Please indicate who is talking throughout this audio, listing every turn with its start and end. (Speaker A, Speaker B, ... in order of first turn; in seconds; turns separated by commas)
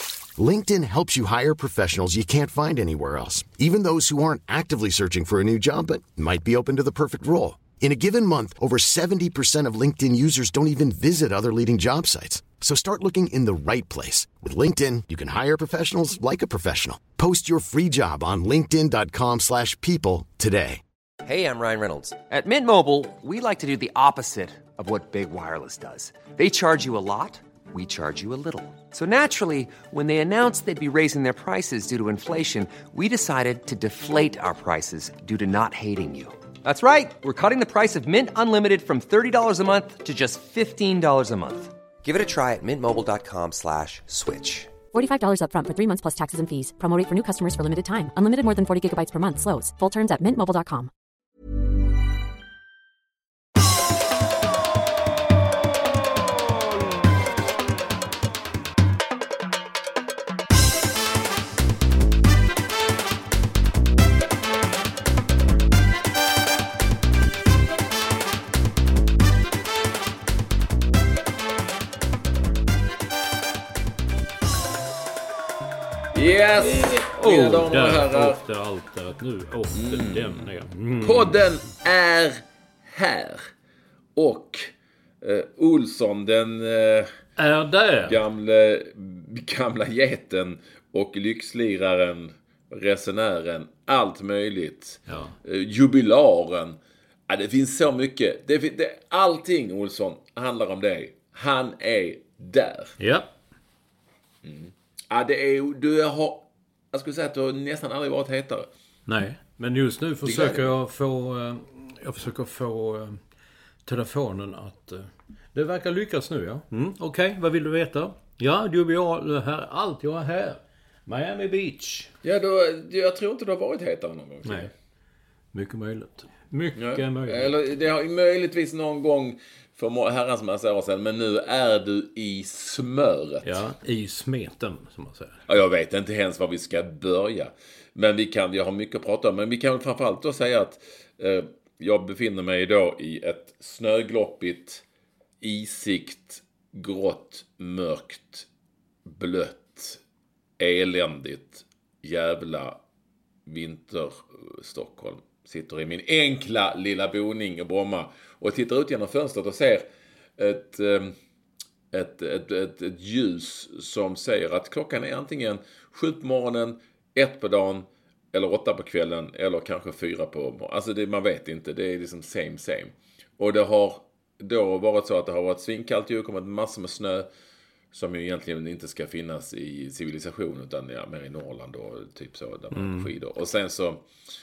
Speaker A: 0.4-20.8, Speaker B: 21.2-44.7, Speaker C: 44.9-50.9, Speaker D: 76.1-78.4, Speaker E: 76.6-81.4, Speaker D: 79.7-80.4, Speaker D: 81.0-83.5, Speaker D: 84.2-87.1, Speaker E: 87.4-88.2, Speaker D: 88.0-96.8, Speaker E: 95.1-95.3, Speaker D: 97.3-103.0, Speaker E: 103.0-103.3, Speaker D: 104.4-108.7, Speaker E: 109.1-113.2, Speaker D: 110.2-110.7, Speaker E: 113.8-122.1, Speaker D: 122.2-124.7, Speaker E: 124.4-124.7, Speaker E: 125.5-127.5, Speaker D: 126.8-133.6, Speaker E: 133.4-135.4, Speaker D: 135.5-144.8, Speaker D: 145.4-148.5, Speaker D: 149.1-150.0, Speaker D: 150.6-152.8, Speaker D: 153.4-159.8, Speaker D: 160.4-161.1, Speaker D: 161.9-177.3, Speaker D: 177.9-184.0, Speaker E: 182.7-183.1